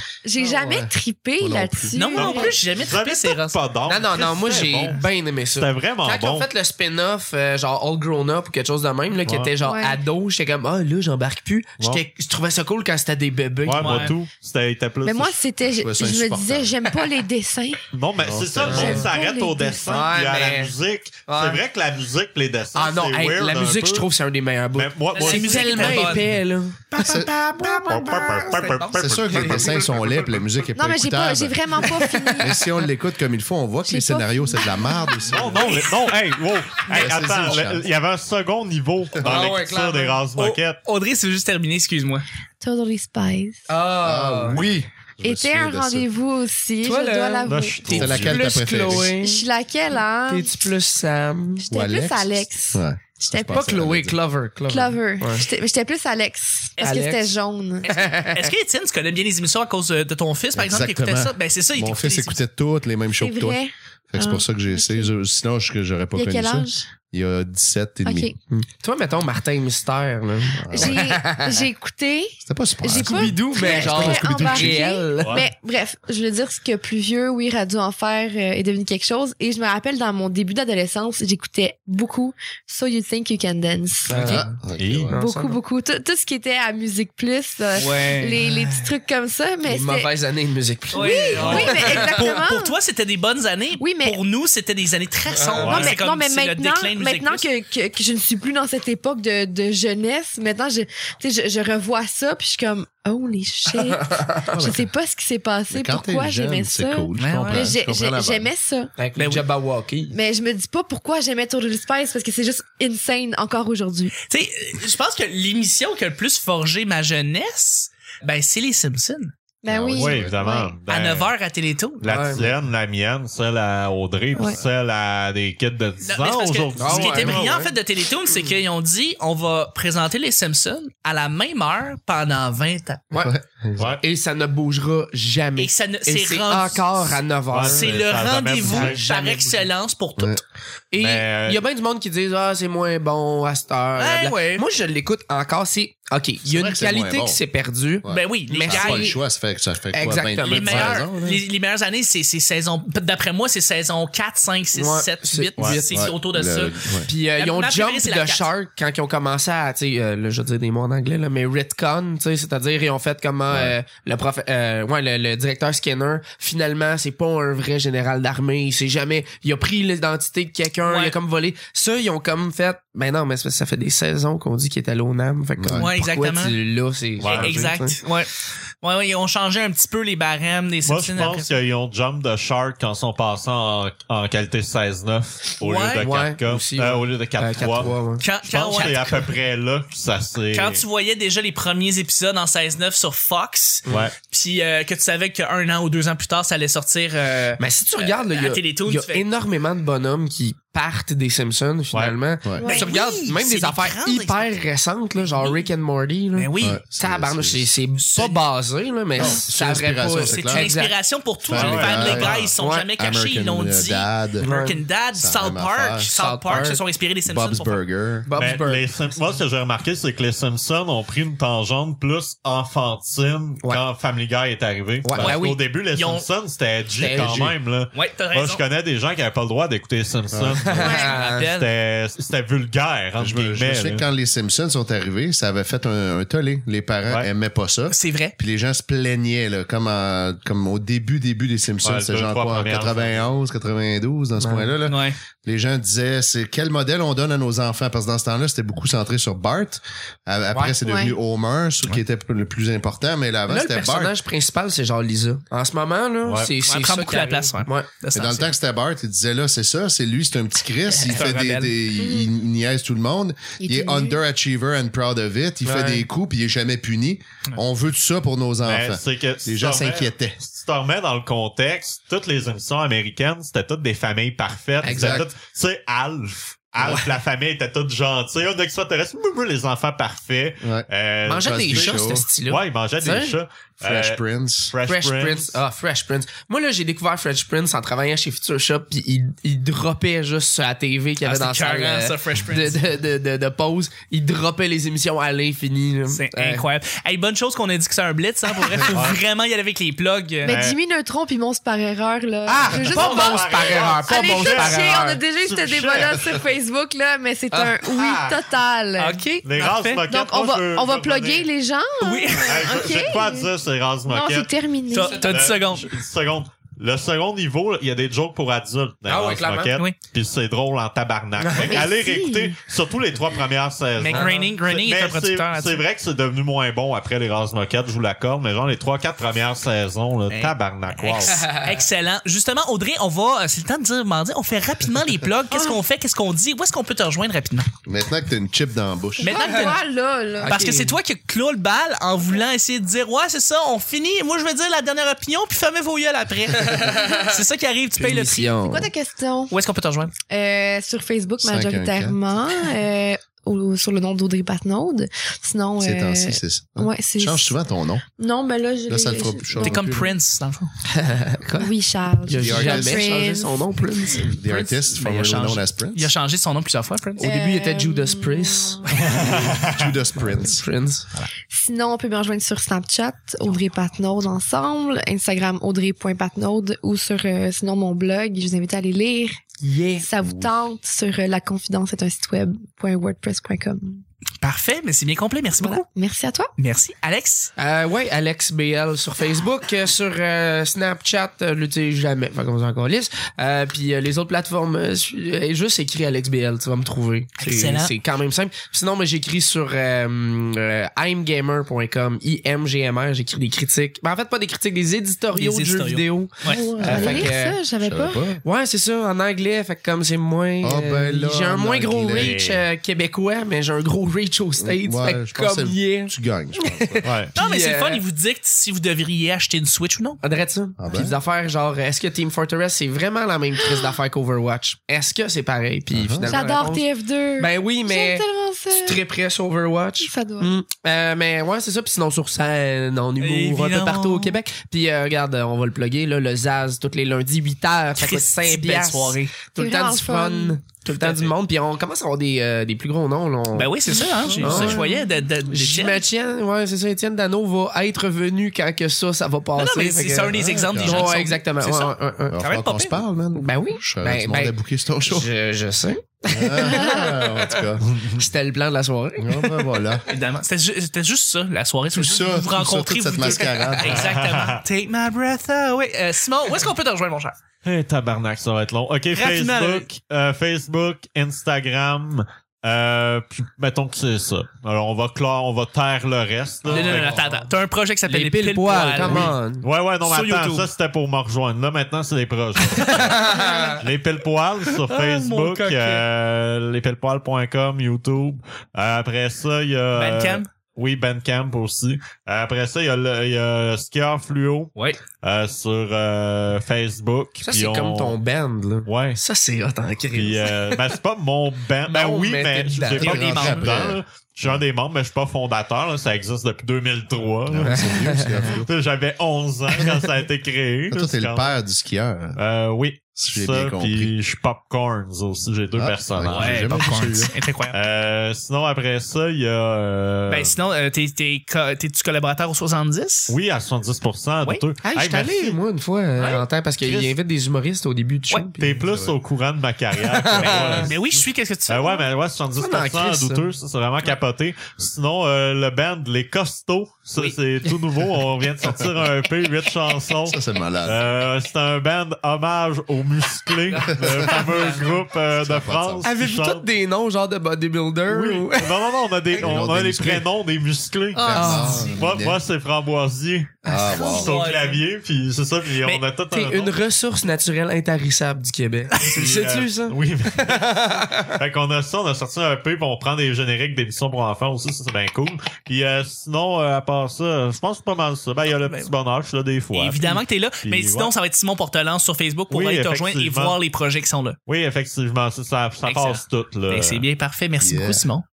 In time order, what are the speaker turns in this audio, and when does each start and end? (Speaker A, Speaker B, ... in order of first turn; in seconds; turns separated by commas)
Speaker A: 0.2-2.6, Speaker B: 0.4-0.7, Speaker C: 0.4-1.9, Speaker D: 1.9-3.6, Speaker E: 2.1-6.5, Speaker B: 3.9-14.1, Speaker E: 9.2-9.5, Speaker A: 9.6-10.0, Speaker E: 13.6-15.4, Speaker D: 13.8-14.2, Speaker A: 15.0-17.8, Speaker C: 15.8-16.7, Speaker E: 17.9-24.1, Speaker C: 18.2-19.1, Speaker B: 18.6-19.1, Speaker A: 18.6-20.0, Speaker B: 19.8-20.7, Speaker B: 21.3-21.6, Speaker B: 22.7-30.4, Speaker E: 24.7-26.4, Speaker D: 25.1-26.3, Speaker C: 26.9-27.4, Speaker E: 27.1-29.9, Speaker D: 28.6-28.9, Speaker C: 29.0-31.8, Speaker A: 30.8-32.6, Speaker B: 31.8-32.5, Speaker C: 32.4-35.9, Speaker A: 33.9-35.4, Speaker E: 35.3-40.8, Speaker C: 36.9-37.9, Speaker B: 39.2-40.2, Speaker D: 40.3-42.2, Speaker A: 42.6-43.6, Speaker B: 43.7-44.7, Speaker C: 44.0-46.1, Speaker A: 45.2-48.0, Speaker B: 46.8-49.4, Speaker E: 47.4-49.0, Speaker C: 47.9-49.1, Speaker A: 49.1-50.5, Speaker B: 50.3-51.7, Speaker A: 51.6-53.8, Speaker C: 51.7-54.2, Speaker B: 53.5-55.5, Speaker A: 54.7-58.0, Speaker D: 56.8-57.0, Speaker B: 56.8-57.3, Speaker D: 57.8-62.4, Speaker B: 57.9-58.5, Speaker C: 60.5-63.6, Speaker A: 63.2-65.1, Speaker C: 64.1-68.3, Speaker A: 66.1-66.9, Speaker A: 68.0-68.4, Speaker B: 68.5-71.6, Speaker C: 70.6-71.0, Speaker A: 70.7-84.5, Speaker C: 72.4-74.8, Speaker B: 72.9-75.5, Speaker E: 75.2-75.5, Speaker B: 84.1-84.5, Speaker C: 84.2-85.2, Speaker E: 84.8-85.1, Speaker B: 85.1-85.6, Speaker A: 85.1-90.1, Speaker D: 87.8-88.4, Speaker B: 88.4-88.9, Speaker B: 89.6-92.3, Speaker D: 90.9-97.5, Speaker A: 90.9-92.7, Speaker E: 91.4-91.9, Speaker A: 93.8-94.2, Speaker B: 95.3-95.8, Speaker E: 95.6-96.0, Speaker A: 95.6-108.9, Speaker B: 103.8-104.5, Speaker C: 104.5-104.8, Speaker C: 105.7-108.5, Speaker D: 107.2-107.7, Speaker B: 109.0-110.1, Speaker D: 109.2-109.4, Speaker A: 110.1-114.1, Speaker D: 114.3-119.3, Speaker A: 119.6-120.8, Speaker C: 119.7-120.3, Speaker E: 119.9-121.3, Speaker D: 120.9-122.1, Speaker E: 122.0-127.5, Speaker B: 122.0-122.5, Speaker D: 126.0-133.0, Speaker B: 126.8-127.7, Speaker B: 128.3-128.6, Speaker B: 133.1-139.7, Speaker C: 133.2-133.8, Speaker E: 133.8-134.0, Speaker D: 135.6-140.4, Speaker E: 137.5-139.0, Speaker B: 140.9-149.2, Speaker E: 141.0-141.6, Speaker D: 143.9-144.6, Speaker C: 146.4-147.4, Speaker C: 148.0-151.4, Speaker D: 148.1-149.2, Speaker B: 149.9-151.1, Speaker D: 150.4-156.8, Speaker B: 154.7-156.1, Speaker E: 155.6-155.8, Speaker C: 155.9-157.1, Speaker B: 157.1-178.0, Speaker D: 157.3-158.5, Speaker C: 163.5-163.8, Speaker D: 170.8-171.1, Speaker C: 175.6-175.8, Speaker D: 175.7-176.6, Speaker E: 177.2-177.6, Speaker D: 177.2-178.3, Speaker D: 178.8-181.5, Speaker E: 180.8-190.8, Speaker D: 185.6-186.1, Speaker B: 186.0-188.2, Speaker D: 188.2-189.3, Speaker D: 190.5-199.3, Speaker E: 193.9-194.1, Speaker B: 197.6-210.9, Speaker E: 201.9-202.2, Speaker A: 202.5-203.0, Speaker D: 202.6-204.6, Speaker D: 205.2-205.7, Speaker D: 206.3-206.8, Speaker C: 206.6-207.7, Speaker D: 208.0-208.4, Speaker C: 209.1-210.7, Speaker D: 210.3-217.8, Speaker C: 211.5-214.5, Speaker E: 211.5-212.5, Speaker B: 212.6-212.9, Speaker B: 214.4-214.8, Speaker C: 215.1-216.1, Speaker B: 216.1-216.8, Speaker C: 217.2-218.3, Speaker B: 218.2-219.0, Speaker E: 218.3-234.0, Speaker B: 225.0-225.6, Speaker D: 225.9-226.2, Speaker B: 227.0-227.5, Speaker D: 227.9-228.6, Speaker C: 230.3-230.7, Speaker B: 230.6-231.4, Speaker A: 230.8-231.1, Speaker D: 230.8-231.7, Speaker C: 233.2-254.1, Speaker D: 237.9-238.3, Speaker E: 241.8-243.3, Speaker B: 244.4-244.7, Speaker D: 244.8-245.2, Speaker A: 250.8-251.2, Speaker B: 253.5-257.9, Speaker E: 256.2-256.5, Speaker D: 256.6-258.5, Speaker C: 258.1-270.4, Speaker D: 261.0-261.8, Speaker A: 262.0-262.3, Speaker A: 263.6-264.2, Speaker B: 265.6-266.0, Speaker E: 268.6-285.6, Speaker B: 274.8-275.2, Speaker C: 274.9-275.3, Speaker B: 276.8-277.1, Speaker C: 280.6-280.9, Speaker B: 281.2-283.4, Speaker C: 281.4-282.2, Speaker C: 283.8-284.7, Speaker B: 284.9-296.7, Speaker D: 291.2-292.8, Speaker D: 296.1-300.6, Speaker B: 298.6-298.9, Speaker E: 298.8-299.2, Speaker A: 300.4-309.2, Speaker E: 300.4-300.8, Speaker B: 302.4-305.2, Speaker E: 302.6-306.4, Speaker B: 307.5-307.8, Speaker E: 307.9-308.4, Speaker D: 309.0-310.0, Speaker E: 309.4-311.5, Speaker A: 310.1-313.5, Speaker D: 312.0-312.9, Speaker E: 312.4-314.5, Speaker A: 314.1-315.3, Speaker D: 314.9-315.9, Speaker E: 315.2-331.4, Speaker B: 319.1-319.8, Speaker B: 321.4-321.8, Speaker A: 321.6-322.6, Speaker D: 324.0-325.8, Speaker B: 324.1-324.4, Speaker D: 330.3-337.7, Speaker B: 331.4-331.7, Speaker C: 337.9-339.3, Speaker A: 339.2-340.7, Speaker D: 339.2-339.8, Speaker B: 339.3-339.7, Speaker B: 340.4-340.9, Speaker D: 340.4-348.5, Speaker B: 346.6-347.1, Speaker A: 346.9-347.3, Speaker B: 348.0-348.9, Speaker A: 348.6-349.5, Speaker D: 349.5-350.1, Speaker A: 350.3-357.5, Speaker C: 351.4-352.2, Speaker C: 355.8-358.0, Speaker A: 358.1-359.9, Speaker C: 358.9-360.1, Speaker D: 359.6-360.7, Speaker B: 360.9-361.7, Speaker A: 361.6-363.6, Speaker B: 362.2-364.3, Speaker C: 362.4-363.2, Speaker C: 364.2-366.1, Speaker D: 364.4-367.3, Speaker A: 367.2-369.1, Speaker B: 367.2-369.5, Speaker E: 369.0-369.9, Speaker C: 369.1-370.6, Speaker B: 370.2-371.1, Speaker A: 371.5-379.4, Speaker B: 379.6-380.1, Speaker A: 380.0-384.0, Speaker C: 380.2-380.6, Speaker D: 384.4-385.8, Speaker A: 385.8-386.5, Speaker D: 386.6-387.5, Speaker B: 387.6-407.6, Speaker D: 397.4-397.9, Speaker D: 405.3-406.6, Speaker A: 406.4-408.2, Speaker C: 406.7-408.4, Speaker B: 408.4-418.0, Speaker C: 410.6-412.3, Speaker E: 412.1-412.6, Speaker C: 414.6-417.1, Speaker E: 417.0-417.3, Speaker D: 417.3-420.2, Speaker B: 420.2-426.9, Speaker C: 420.8-421.2, Speaker A: 423.6-423.9, Speaker C: 425.9-426.4, Speaker A: 426.2-429.0, Speaker B: 427.4-443.7, Speaker A: 430.0-430.5, Speaker D: 433.2-434.4, Speaker D: 437.9-439.3, Speaker A: 439.6-440.6, Speaker D: 440.8-441.3, Speaker D: 443.5-446.0, Speaker A: 443.9-445.1, Speaker B: 444.4-444.9, Speaker B: 445.5-452.4, Speaker D: 449.6-453.0, Speaker C: 450.3-451.1, Speaker C: 452.3-455.3, Speaker B: 453.3-454.5, Speaker B: 455.0-459.8, Speaker C: 456.3-457.8, Speaker A: 456.7-457.0, Speaker E: 457.8-458.2, Speaker C: 459.2-460.0, Speaker D: 460.1-467.4, Speaker C: 461.9-464.1, Speaker E: 463.8-464.6, Speaker E: 467.6-477.3, Speaker D: 469.1-469.9, Speaker D: 476.6-479.3, Speaker C: 476.9-477.2, Speaker B: 478.1-479.7, Speaker E: 479.0-498.2, Speaker D: 480.1-480.7, Speaker D: 482.6-483.8, Speaker B: 483.1-483.8, Speaker D: 484.8-486.0, Speaker D: 489.9-490.5, Speaker B: 497.4-500.9, Speaker E: 498.9-499.2, Speaker E: 500.1-511.5, Speaker B: 501.9-503.9, Speaker C: 503.0-504.6, Speaker C: 507.5-508.7, Speaker B: 507.7-508.4, Speaker C: 510.9-512.4, Speaker E: 512.4-516.7, Speaker C: 513.2-514.1, Speaker C: 515.7-517.3, Speaker D: 516.3-517.8, Speaker E: 517.7-520.6, Speaker D: 520.3-523.3, Speaker E: 523.3-525.6, Speaker B: 524.8-528.8, Speaker D: 526.2-527.1, Speaker E: 526.8-527.1, Speaker E: 528.6-531.0, Speaker C: 528.7-529.1, Speaker B: 530.0-531.0, Speaker D: 530.4-532.0, Speaker E: 531.7-546.7, Speaker B: 532.6-533.5, Speaker C: 540.2-541.0, Speaker D: 543.7-545.0, Speaker C: 544.0-544.4, Speaker C: 545.3-546.1, Speaker B: 546.0-548.7, Speaker E: 548.1-556.7, Speaker C: 549.4-550.3, Speaker C: 551.1-552.4, Speaker B: 551.3-551.9, Speaker D: 551.4-551.8, Speaker C: 553.6-554.3, Speaker B: 553.6-554.0, Speaker D: 553.9-554.8, Speaker B: 556.3-561.4, Speaker E: 559.1-571.1, Speaker D: 569.7-574.4, Speaker E: 572.5-573.6, Speaker E: 574.5-577.0, Speaker D: 575.8-578.2, Speaker C: 577.6-578.0